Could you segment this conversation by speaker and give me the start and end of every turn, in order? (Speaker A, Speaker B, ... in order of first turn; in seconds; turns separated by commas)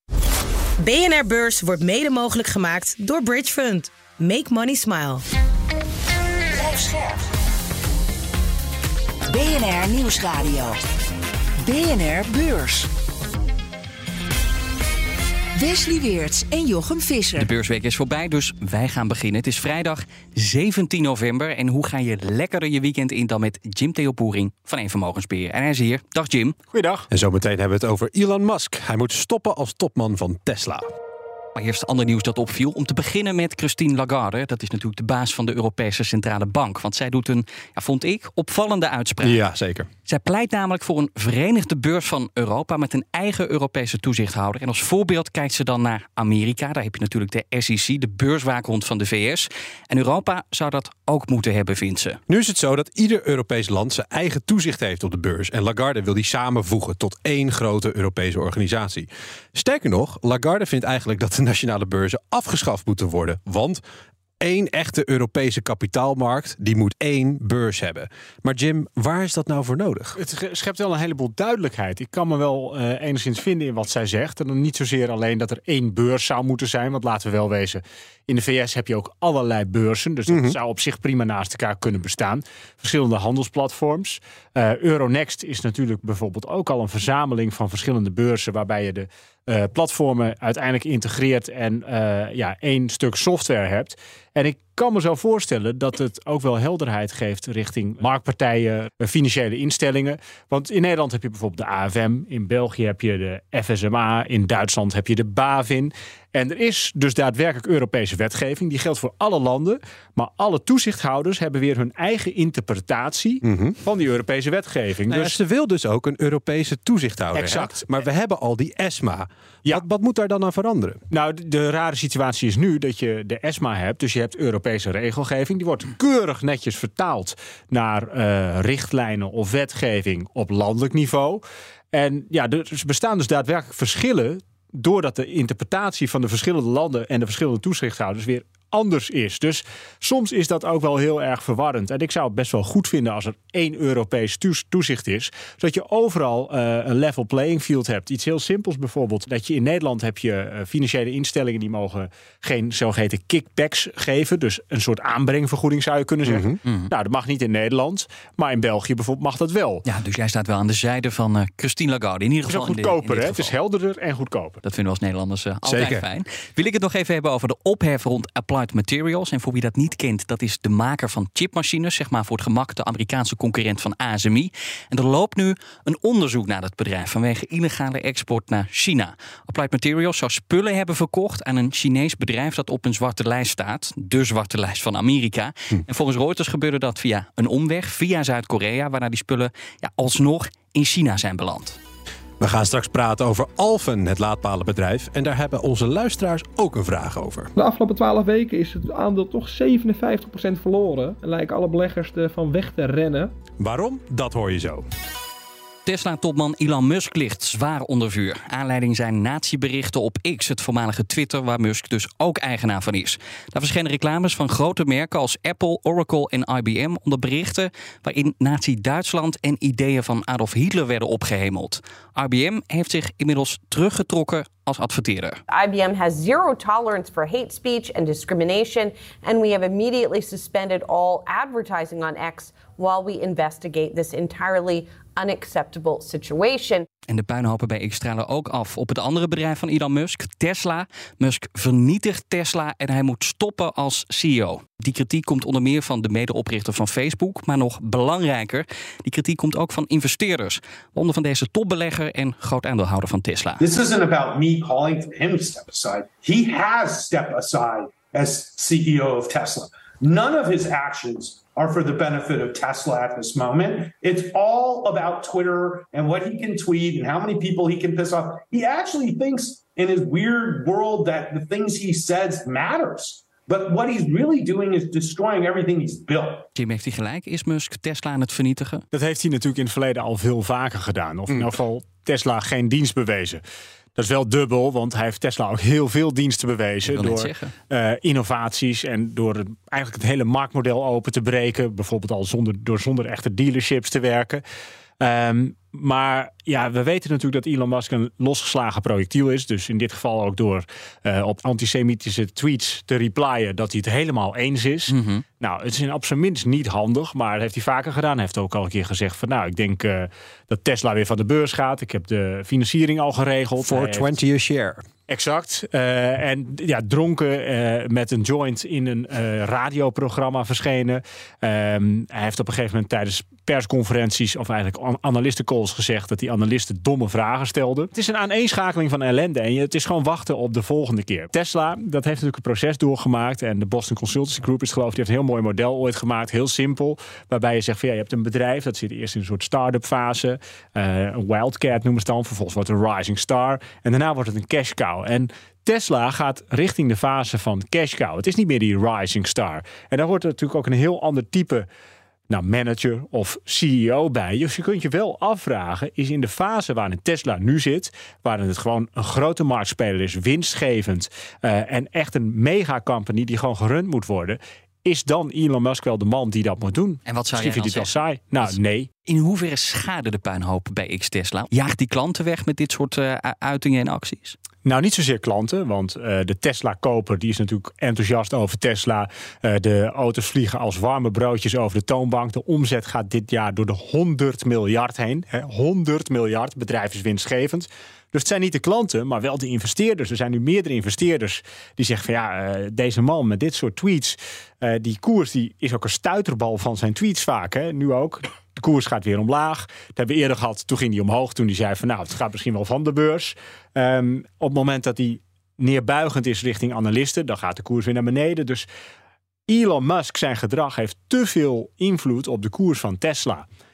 Speaker A: 0.8-5.2, Speaker B: 6.5-7.2, Speaker B: 9.3-10.8, Speaker B: 11.6-12.9, Speaker B: 15.6-17.5, Speaker C: 17.4-26.6, Speaker D: 26.7-27.1, Speaker E: 27.1-30.9, Speaker C: 31.6-39.4, Speaker E: 39.2-39.9, Speaker C: 40.1-52.2, Speaker E: 52.3-63.8, Speaker E: 64.4-70.2, Speaker D: 70.2-115.4, Speaker E: 80.3-80.6, Speaker E: 113.4-113.8, Speaker E: 115.1-121.0, Speaker D: 117.3-117.9, Speaker D: 121.1-159.8, Speaker E: 156.3-156.6, Speaker C: 156.7-156.9, Speaker C: 159.8-163.5, Speaker D: 162.5-164.6, Speaker C: 164.6-191.8, Speaker E: 165.6-166.0, Speaker E: 192.4-197.5, Speaker F: 197.6-203.3, Speaker E: 203.6-204.8, Speaker C: 205.9-225.4, Speaker G: 225.5-236.8, Speaker C: 237.1-253.7, Speaker H: 253.6-276.5, Speaker C: 276.6-278.9, Speaker D: 278.9-283.4, Speaker D: 284.0-294.4, Speaker C: 286.9-287.5, Speaker D: 295.0-314.1, Speaker C: 304.9-305.2, Speaker E: 313.6-314.9, Speaker D: 315.1-351.7, Speaker D: 352.3-368.9, Speaker C: 367.1-374.4, Speaker D: 374.6-408.7, Speaker D: 409.5-413.4